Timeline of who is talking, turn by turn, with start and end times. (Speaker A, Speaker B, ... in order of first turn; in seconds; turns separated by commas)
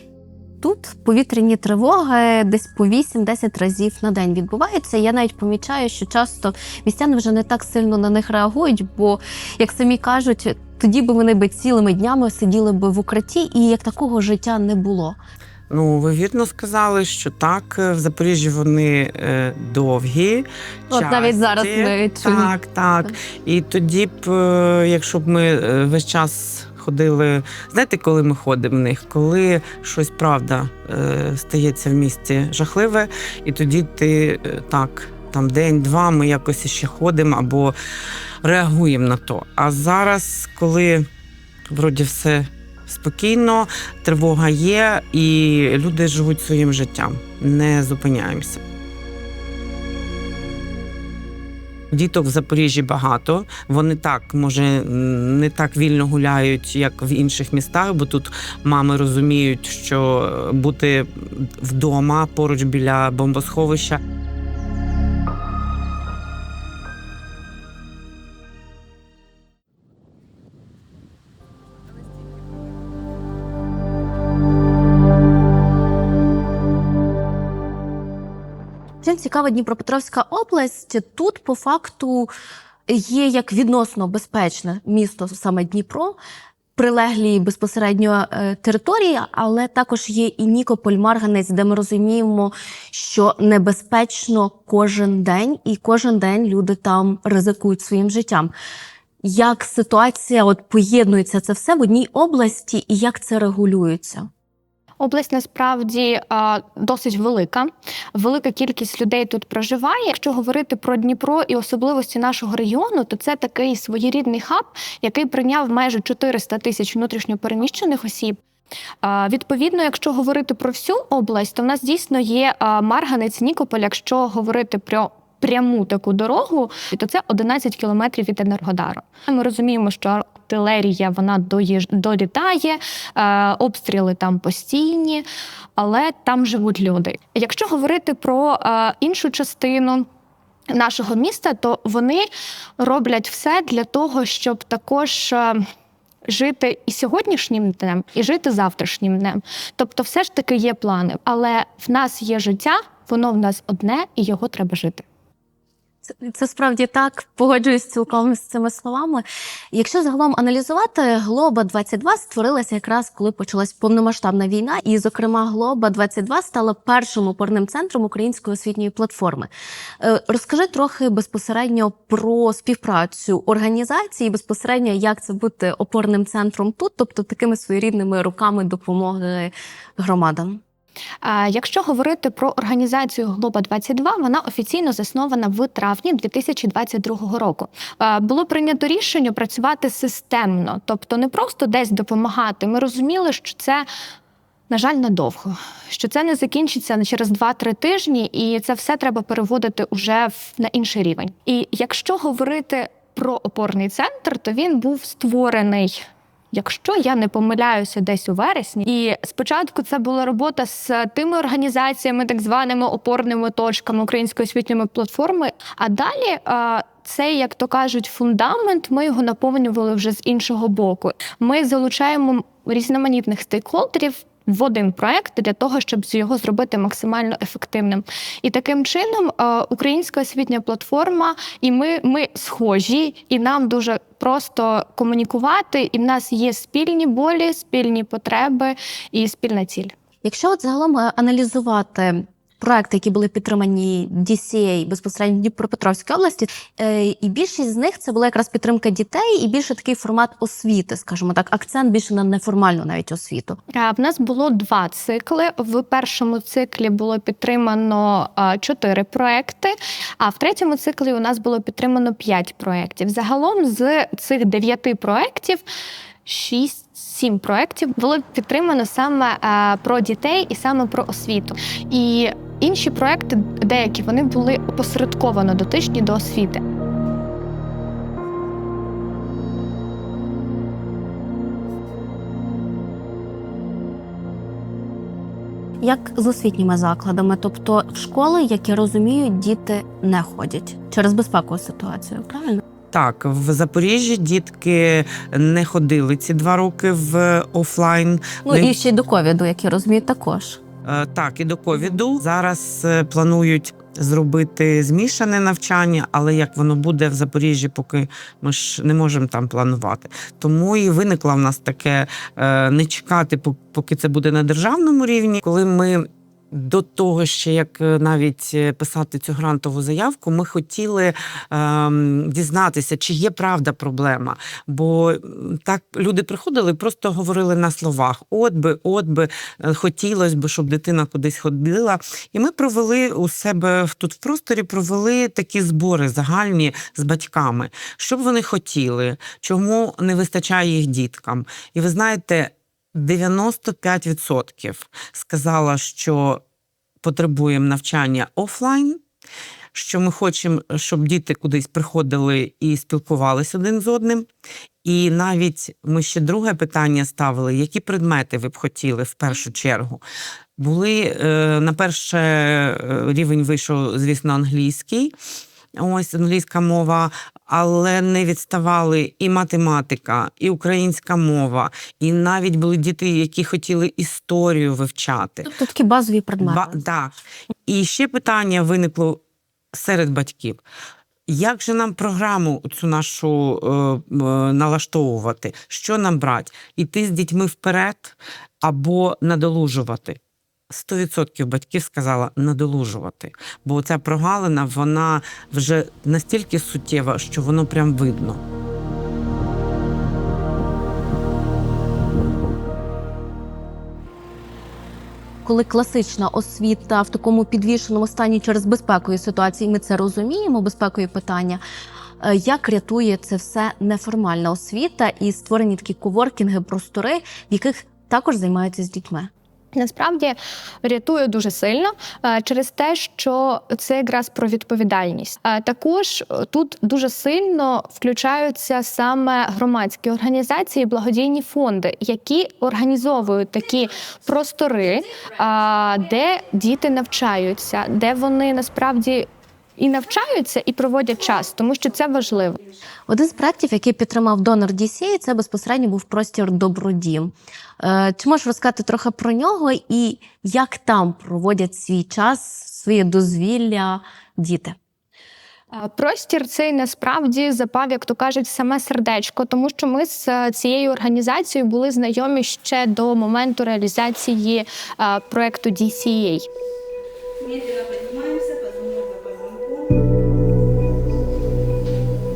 Speaker A: 0.6-15.2, Speaker B: 15.7-37.8, Speaker A: 20.9-23.1, Speaker B: 38.4-41.0, Speaker B: 41.7-48.6, Speaker B: 51.9-64.0, Speaker A: 79.0-82.3, Speaker A: 82.9-86.2, Speaker A: 86.8-98.5, Speaker A: 99.2-104.3, Speaker C: 105.0-118.4, Speaker C: 119.0-135.2, Speaker C: 135.8-140.1, Speaker C: 140.7-142.3, Speaker C: 142.8-145.6, Speaker C: 146.3-155.0, Speaker A: 156.1-180.6, Speaker C: 181.2-193.9, Speaker C: 194.7-206.0, Speaker C: 206.5-239.9, Speaker A: 240.2-253.6, Speaker C: 253.8-265.6, Speaker C: 266.2-276.6, Speaker A: 285.8-292.6, Speaker B: 292.9-298.8, Speaker A: 298.4-300.6, Speaker B: 300.9-346.4, Speaker B: 347.0-349.0, Speaker B: 349.7-354.3, Speaker B: 354.8-360.0, Speaker B: 360.6-365.1, Speaker B: 365.8-375.5, Speaker A: 375.4-376.8, Speaker B: 376.4-377.1, Speaker B: 377.7-379.2, Speaker B: 379.7-380.6, Speaker B: 381.3-390.2, Speaker B: 390.7-398.4, Speaker A: 405.4-411.6, Speaker A: 412.2-419.3, Speaker C: 419.7-442.6, Speaker A: 443.1-454.8, Speaker C: 455.7-466.5